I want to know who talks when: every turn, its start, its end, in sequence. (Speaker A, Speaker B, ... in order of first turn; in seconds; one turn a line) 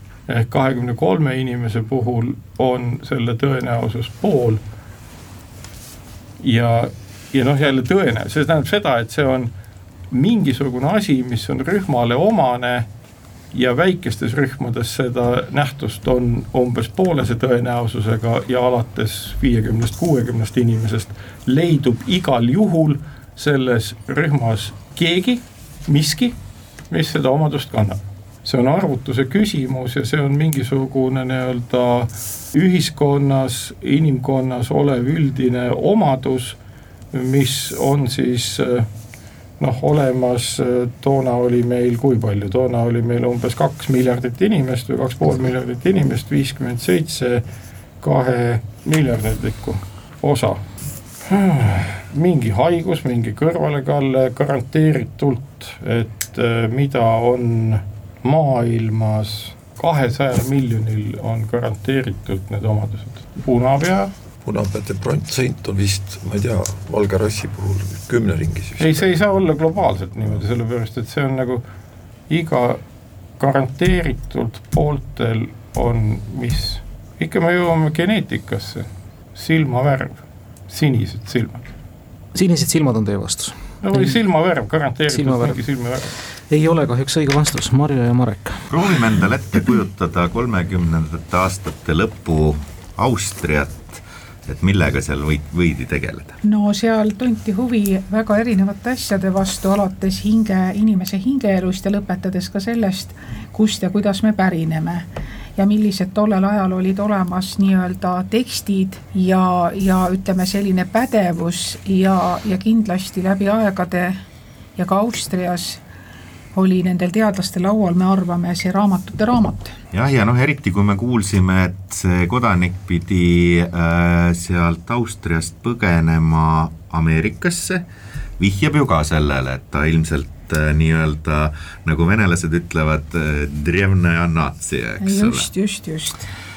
Speaker A: 0.3-4.6
Speaker A: 6.4-9.5
Speaker A: 10.1-12.9
Speaker A: 13.5-26.4
Speaker A: 26.9-36.6
Speaker A: 37.1-38.9
Speaker A: 39.6-47.4
Speaker A: 48.0-50.6
Speaker A: 51.3-64.1
Speaker B: 64.4-69.1
Speaker A: 68.8-71.6
Speaker A: 72.3-72.8
Speaker A: 73.4-81.6
Speaker C: 82.3-84.2
Speaker A: 83.8-86.1
Speaker C: 85.1-85.6
Speaker C: 86.5-88.6
Speaker D: 88.7-96.3
Speaker E: 96.4-114.2
Speaker E: 114.8-115.8
Speaker E: 116.5-119.7
Speaker D: 119.9-127.8
Speaker D: 128.4-135.5
Speaker E: 135.0-136.3